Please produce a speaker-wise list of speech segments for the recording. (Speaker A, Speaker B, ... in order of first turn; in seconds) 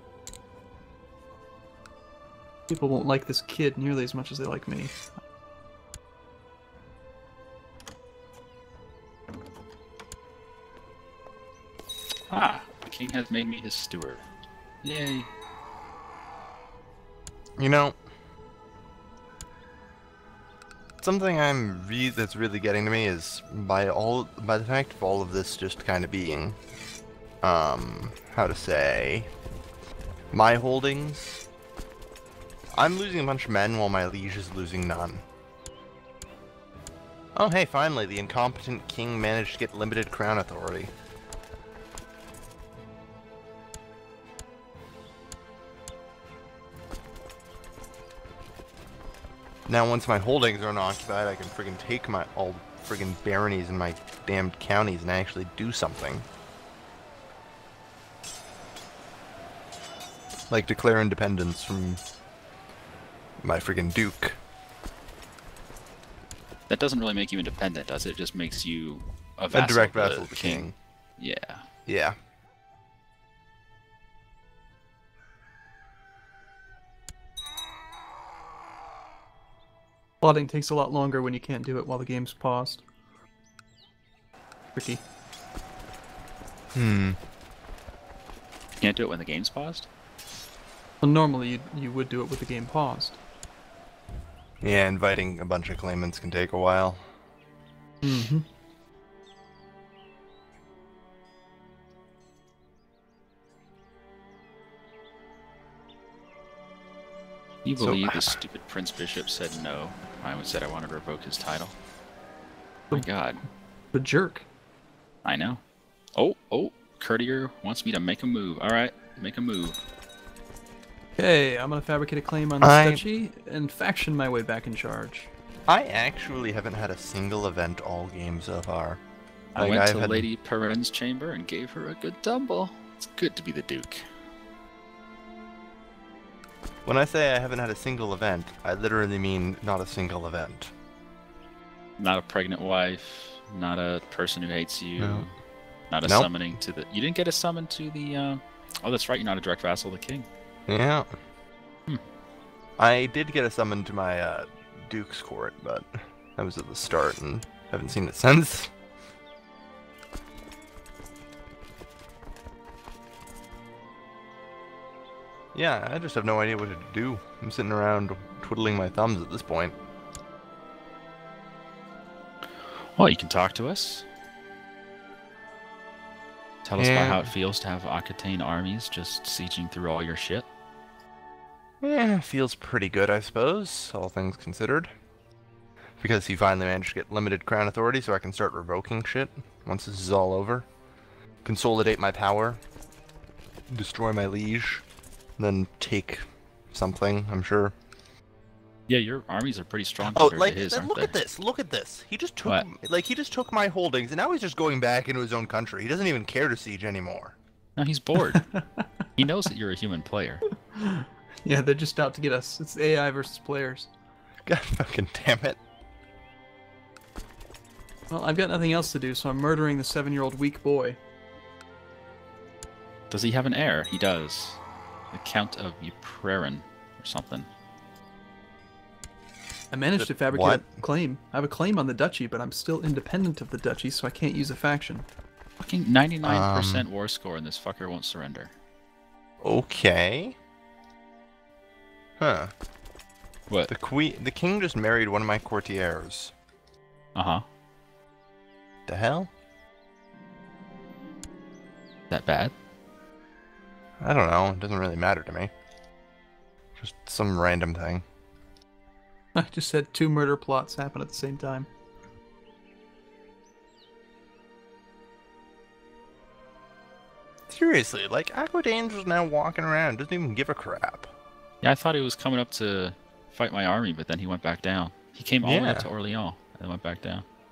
Speaker A: 2.7-5.0, 80.2-82.8, 84.7-85.0, 91.0-93.2, 98.0-98.4, 113.9-114.5, 121.2-125.3, 208.3-208.8, 210.7-213.9, 218.1-221.0, 229.7-235.1, 259.3-261.7
Speaker B: 12.3-14.2, 14.8-15.3, 66.7-71.6, 88.8-89.9, 107.6-111.7, 112.9-113.4, 115.2-115.6, 116.1-119.8, 129.5-134.0, 142.0-145.3, 145.9-150.3, 172.9-174.1, 176.6-180.4, 198.9-201.2, 207.8-208.5, 209.2-210.4, 223.1-224.6, 225.1-227.5, 235.6-238.5, 247.1-247.4, 252.1-252.5, 271.6-277.2
Speaker C: 17.6-18.0, 21.0-26.6, 27.4-29.3, 30.3-31.4, 32.7-35.2, 37.3-40.9, 49.7-56.2, 60.5-62.0, 63.4-64.4, 69.5-70.7, 71.9-72.1, 86.7-87.2, 94.6-97.0, 107.8-108.4, 122.6-123.0, 125.7-129.0, 129.6-130.3, 136.8-140.7, 145.0-145.2, 146.0-146.3, 150.7-151.1, 152.8-158.7, 165.5-169.8, 176.8-177.3, 181.8-184.9, 186.0-190.7, 191.4-192.6, 193.7-194.8, 195.4-197.7, 200.0-207.3, 214.4-215.6, 230.0-230.8, 236.2-236.9, 239.4-240.3, 242.2-242.5, 243.7-246.3, 248.9-249.3, 254.0-255.5, 256.8-258.0, 267.5-271.1, 275.4-275.9